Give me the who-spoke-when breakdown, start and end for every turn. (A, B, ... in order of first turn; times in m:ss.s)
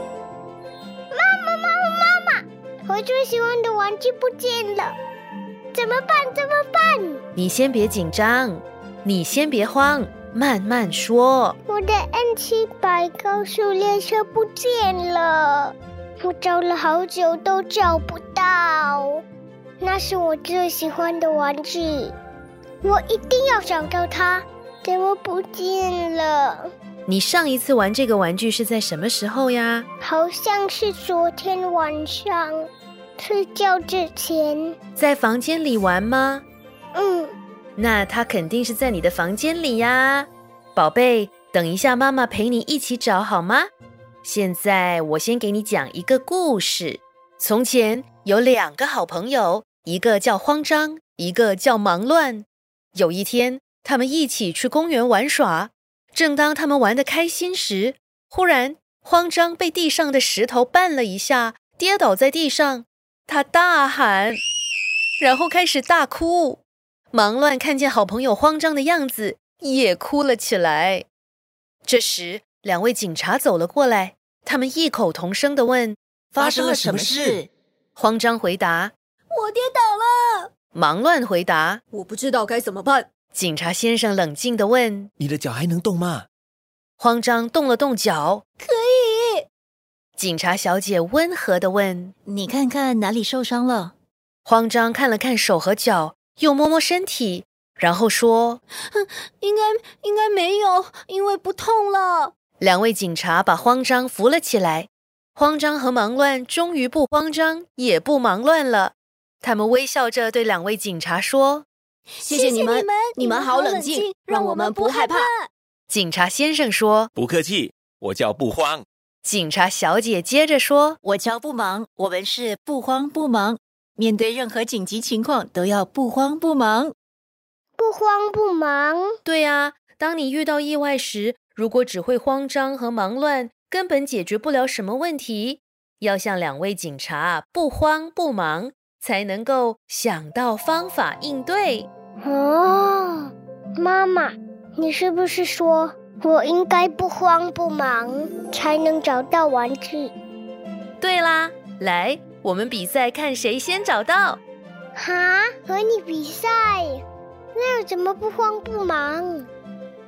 0:01.1-0:05.0 A
0:05.7-0:07.2 A
0:07.4-0:11.6 B
0:11.7-0:19.2 A
0:19.8-0:22.2 A
0:22.8-0:26.7 A
0:27.1-0:29.9 B
0:30.0-0:32.7 A
0:33.2-0:34.8 A
0:35.0-0:36.4 B
0:37.0-0:37.3 A
0:37.8-0:43.7 B
0:44.2-1:04.4 B
1:05.2-1:11.1 B
1:11.8-1:16.0 B
1:16.3-1:17.5 C
1:16.4-1:17.4 D
1:18.0-1:18.9 B
1:19.3-1:20.5 E
1:20.7-1:21.8 B
1:22.4-1:22.8 E
1:23.3-1:25.1 B
1:25.2-1:26.3 D
1:27.0-1:28.4 B
1:28.6-1:29.5 E
1:30.2-1:32.1 B
1:32.2-1:33.9 C
1:34.4-1:38.6 B
1:38.9-1:42.3 E
1:42.6-1:51.7 B
1:52.2-1:55.5 E
1:52.2-1:55.3 C
1:55.9-1:57.1 B
1:57.2-1:58.8 D
1:59.2-2:01.0 B
2:01.0-2:07.0 C
2:07.8-2:09.1 A
2:09.2-2:21.9 B
2:22.2-2:30.1 A
2:31.0-2:34.4 B
2:35.0-2:37.0 A
2:37.5-2:39.5 A